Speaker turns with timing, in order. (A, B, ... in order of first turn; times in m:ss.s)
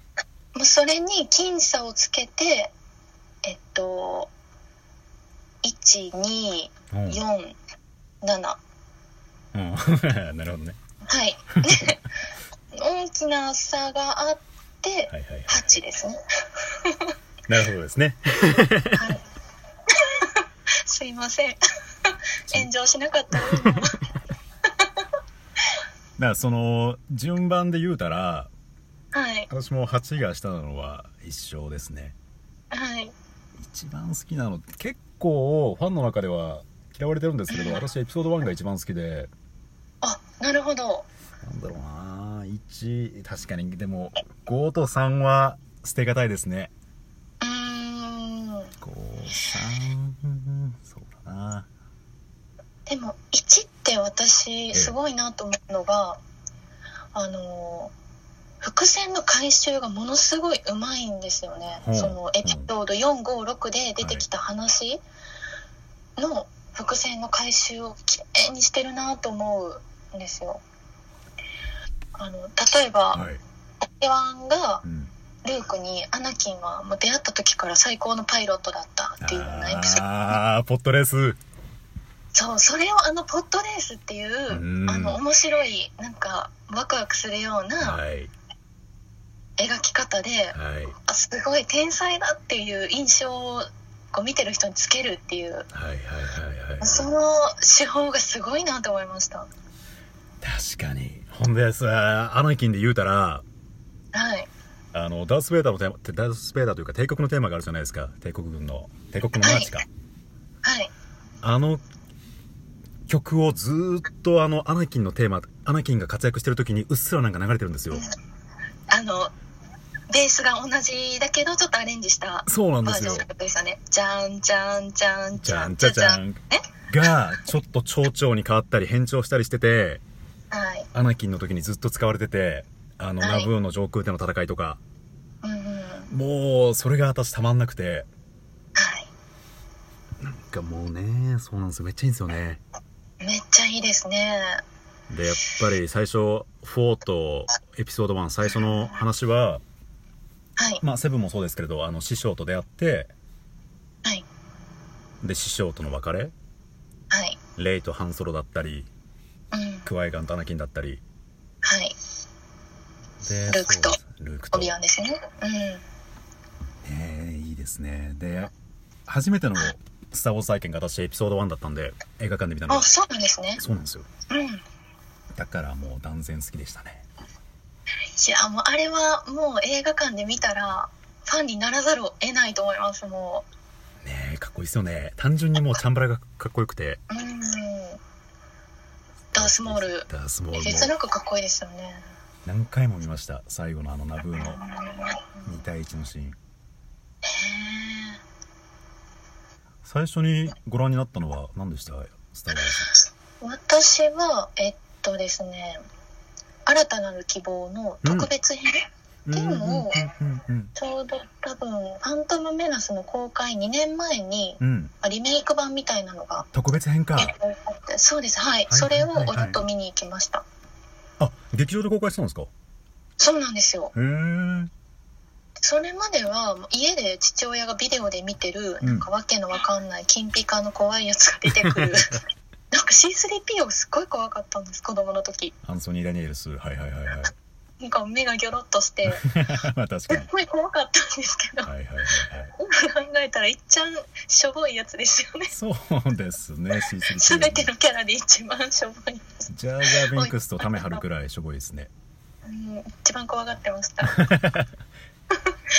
0:00.6-0:02.7 A
0:03.4-0:04.3 A
0:05.6-0:07.6 A
0:06.9-0:07.2 B
0:08.2-0:08.6 A
0:09.5-0:10.8 B
0:11.1-0:12.0 A
0:11.6-0:12.0 B
0:12.7-0:16.2 A
0:15.1-0:15.8 B
0:16.8-0:17.1 A
0:17.5-0:19.2 B
0:19.0-0:19.2 A
0:19.9-0:21.6 A
0:22.5-0:24.0 A
0:26.2-0:28.5 B
0:29.1-0:29.5 A
0:29.5-0:32.1 B
0:32.7-0:33.1 A
0:33.6-0:39.3 B
0:37.5-0:37.8 A
0:40.0-0:41.0 A
0:41.4-0:46.7 B
0:47.4-0:48.7 A
0:48.8-0:51.7 B
0:52.9-0:56.2 A
0:57.1-0:57.9 A
0:58.6-1:05.0 A
1:01.8-1:02.7 B
1:04.0-1:04.2 B
1:06.2-1:10.6 A
1:12.2-1:13.2 A
1:13.1-1:13.4 B
1:14.0-1:14.8 A
1:14.8-1:15.1 B
1:15.4-1:20.1 A
1:19.2-1:21.4 B
1:22.3-1:28.0 A
1:24.5-1:25.2 B
1:27.8-1:28.3 B
1:29.6-1:30.6 A
1:30.5-1:31.0 B
1:31.1-1:35.6 A
1:35.7-1:37.1 B
1:36.8-1:39.5 A
1:40.4-1:43.4 B
1:44.1-1:44.5 A
1:44.9-1:49.9 B
1:49.4-1:49.7 A
1:50.6-1:50.9 A
1:51.4-1:51.8 B
1:53.1-1:58.0 B
1:58.9-1:59.3 A
2:00.1-2:06.6 A
2:02.5-2:03.3 B
2:05.4-2:10.0 B
2:10.5-2:10.9 A
2:10.9-2:14.8 B
2:13.2-2:13.5 A
2:15.4-2:16.1 A
2:16.1-2:18.1 B
2:18.8-2:19.1 A
2:20.2-2:22.6 B
2:23.2-2:24.6 A
2:25.1-2:29.6 B
2:30.8-2:33.1 B
2:35.2-2:36.3 B
2:37.1-2:37.4 A
2:37.6-2:38.9 B
2:39.5-2:39.9 A
2:39.8-2:41.0 B
2:41.6-2:41.9 A
2:43.2-2:44.7 B
2:43.5-2:44.0 A
2:44.5-2:45.8 A
2:46.8-2:48.5 B
2:49.1-2:52.9 B
2:52.7-2:53.6 A
2:53.6-2:54.1 B
2:54.3-2:54.6 A
2:55.3-2:57.0 B
2:58.2-3:03.4 A
3:04.0-3:07.0 B
3:07.1-3:08.0 A
3:09.3-3:10.9 B
3:09.3-3:12.0 A
3:12.4-3:14.6 B
3:14.4-3:15.4 A
3:15.4-3:16.4 B
3:17.3-3:18.2 A
3:19.8-3:22.9 B
3:23.4-3:25.8 A
3:26.7-3:30.0 A
3:28.0-3:28.3 B
3:29.2-3:30.7 B
3:30.8-3:36.5 A
3:34.6-3:34.9 B
3:36.5-3:37.3 B
3:37.2-3:40.4 A
3:38.7-3:39.6 B
3:41.2-3:42.5 B
3:43.2-3:43.9 A
3:43.9-3:44.7 B
3:45.6-3:52.2 A
3:48.8-3:49.1 B
3:52.7-3:55.5 A
3:55.6-3:57.3 B
3:57.8-3:59.2 A
3:59.2-4:00.3 B
4:00.1-4:01.7 A
4:01.6-4:02.5 B
4:02.6-4:05.5 A
4:05.5-4:07.7 B
4:06.8-4:09.3 A
4:09.5-4:11.9 B
4:09.8-4:11.0 A
4:12.4-4:14.2 A
4:14.1-4:14.7 B